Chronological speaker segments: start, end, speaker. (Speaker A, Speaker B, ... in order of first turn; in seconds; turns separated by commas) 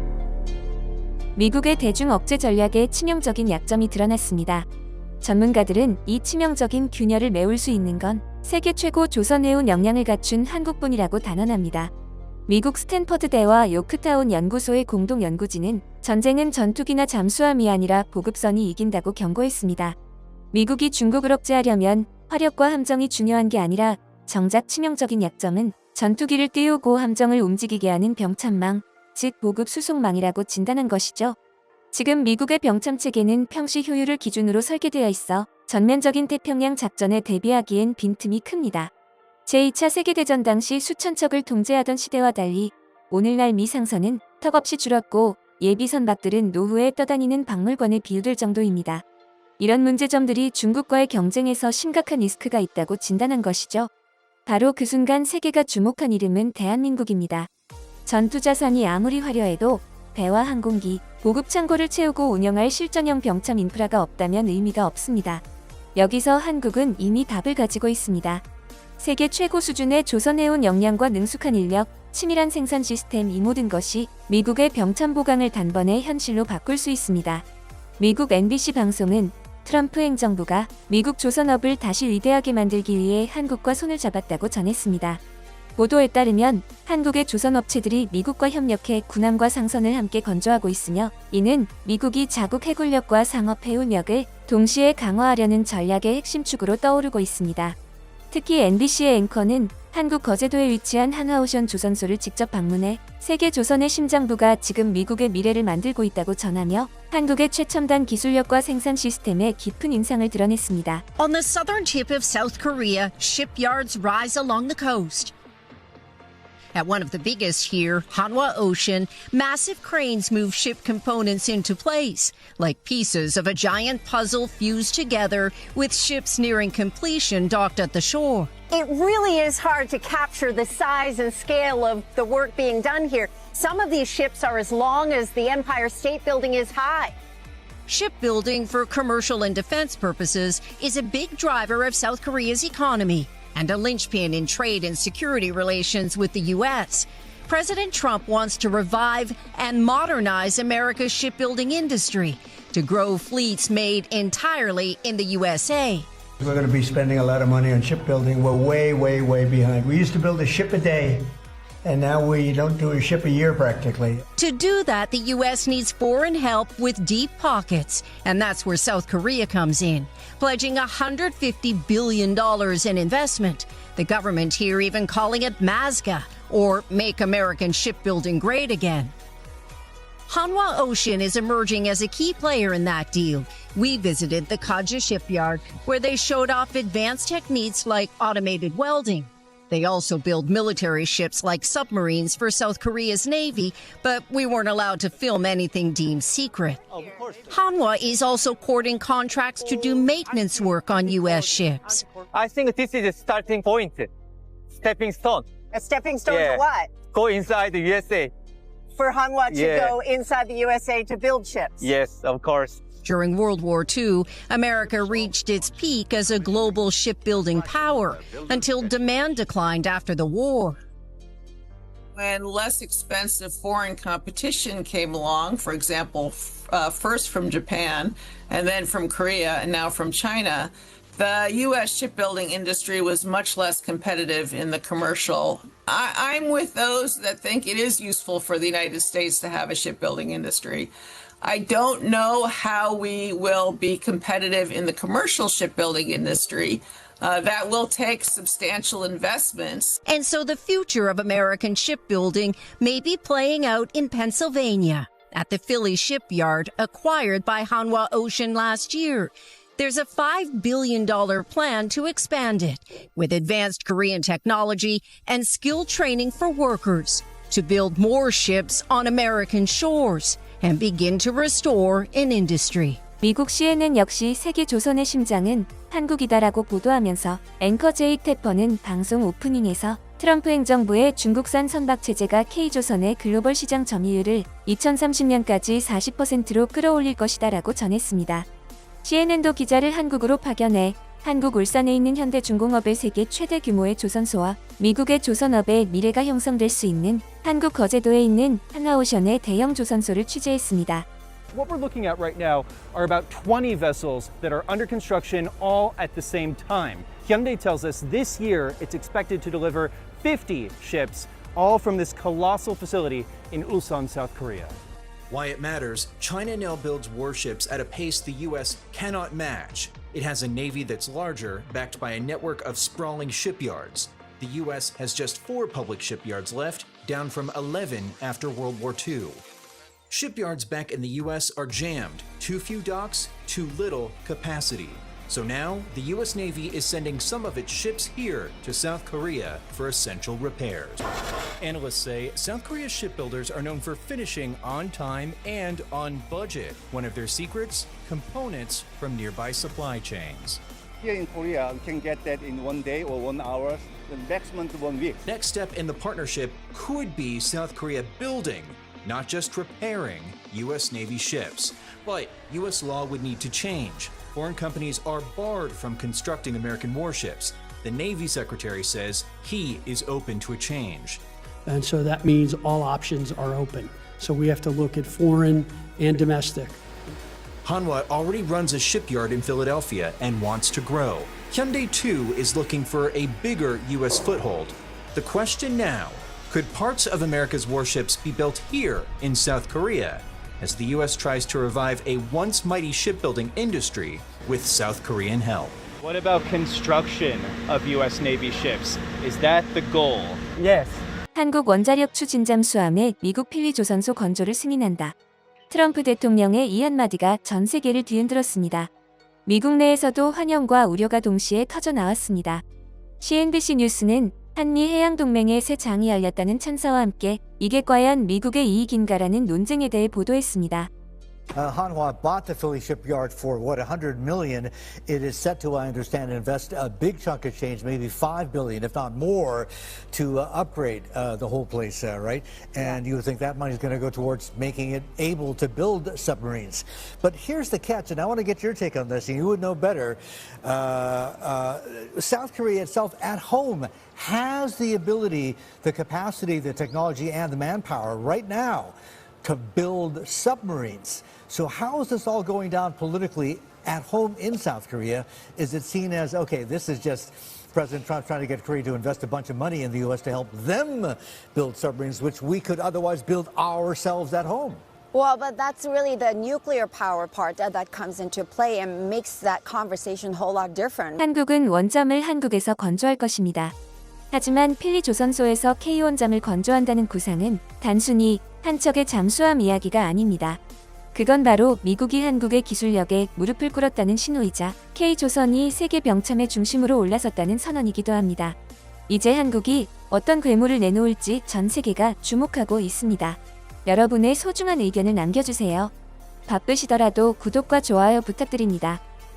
Speaker A: 1.4-4.7, Speaker A: 5.2-11.9, Speaker A: 12.5-19.9, Speaker A: 20.5-31.4, Speaker A: 31.9-38.9, Speaker A: 39.5-49.0, Speaker A: 49.6-53.9, Speaker A: 54.5-57.5, Speaker A: 58.0-65.4, Speaker A: 66.0-68.4, Speaker A: 69.0-77.4, Speaker A: 78.0-85.2, Speaker A: 85.8-97.8, Speaker A: 98.3-111.0, Speaker B: 111.2-115.3, Speaker B: 116.7-128.5, Speaker C: 128.7-137.1, Speaker B: 137.9-156.1, Speaker D: 156.4-161.3, Speaker D: 161.8-164.2, Speaker B: 164.4-179.1, Speaker B: 180.3-196.8, Speaker E: 196.9-197.4, Speaker B: 197.5-202.1, Speaker E: 202.2-204.1, Speaker E: 204.8-205.5, Speaker C: 205.8-206.8, Speaker F: 206.2-206.8, Speaker E: 206.3-208.3, Speaker C: 209.0-211.7, Speaker F: 209.4-210.1, Speaker E: 209.5-209.9, Speaker E: 211.8-212.8, Speaker B: 213.0-220.8, Speaker G: 222.2-240.9, Speaker G: 241.4-250.0, Speaker B: 250.1-273.0, Speaker A: 273.2-288.4, Speaker A: 289.0-301.1, Speaker H: 301.5-314.7, Speaker I: 315.3-329.4, Speaker I: 330.1-341.0, Speaker I: 341.6-350.6, Speaker J: 351.0-355.2, Speaker I: 355.2-371.2, Speaker K: 371.6-376.8, Speaker I: 377.6-395.8, Speaker H: 396.0-400.4, Speaker A: 401.3-405.1, Speaker A: 405.7-408.9, Speaker A: 409.4-412.6, Speaker A: 413.2-420.9, Speaker L: 421.6-464.8, Speaker F: 465.1-471.2, Speaker A: 471.2-473.7, Speaker A: 474.3-480.6, Speaker A: 481.1-488.6, Speaker A: 489.1-495.9, Speaker A: 496.5-499.0